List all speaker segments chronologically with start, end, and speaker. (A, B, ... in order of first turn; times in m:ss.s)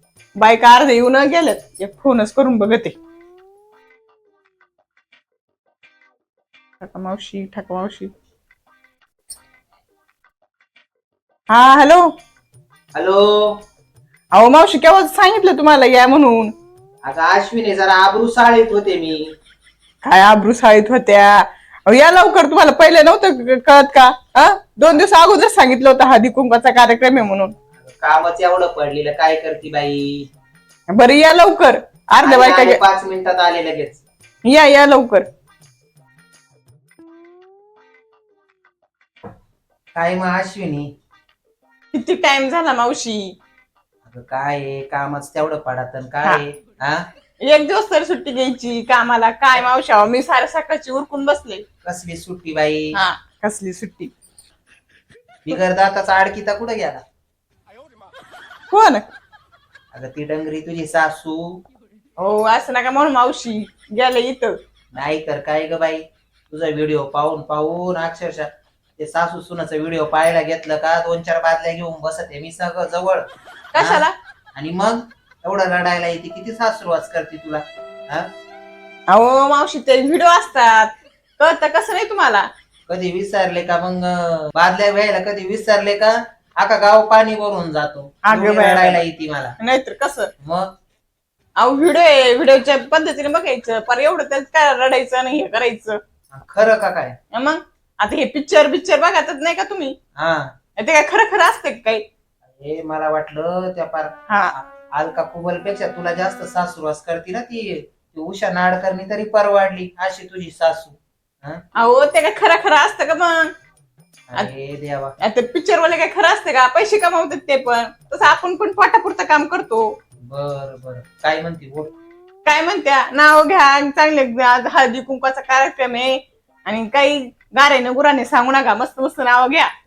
0:00.4-0:03.0 A
0:06.8-0:08.1 A
0:11.5-0:12.0 A
0:12.9-0:13.6 B
0:14.3-0:16.5 A
0:17.0-0:19.3 B
0:20.0-0:27.5 A
0:27.8-0:30.3 B
0:30.9-0:32.8 A
0:32.2-0:34.0 B
0:34.4-0:35.2 A
0:39.9-0:40.9 B
0:41.9-0:43.3 A
0:44.0-0:47.0 B
0:47.4-0:51.6 A
0:51.8-0:53.0 B
0:52.9-0:54.1 A
0:55.4-0:57.0 B
0:58.7-0:59.0 A
0:59.9-1:01.6 B
1:02.2-1:04.6 A
1:04.9-1:08.5 B
1:09.0-1:18.3 B
1:13.7-1:14.1 A
1:19.1-1:22.5 A
1:22.9-1:29.6 B
1:28.2-1:29.0 A
1:29.6-1:30.3 A
1:30.4-1:30.7 B
1:31.6-1:36.0 A
1:36.3-1:37.2 B
1:37.3-1:40.0 A
1:40.2-1:40.5 B
1:40.8-1:42.0 A
1:42.4-1:51.6 B
1:44.3-1:44.5 A
1:51.8-1:53.5 A
1:54.3-1:55.2 B
1:55.2-1:59.8 A
2:00.3-2:01.9 B
2:02.4-2:09.7 A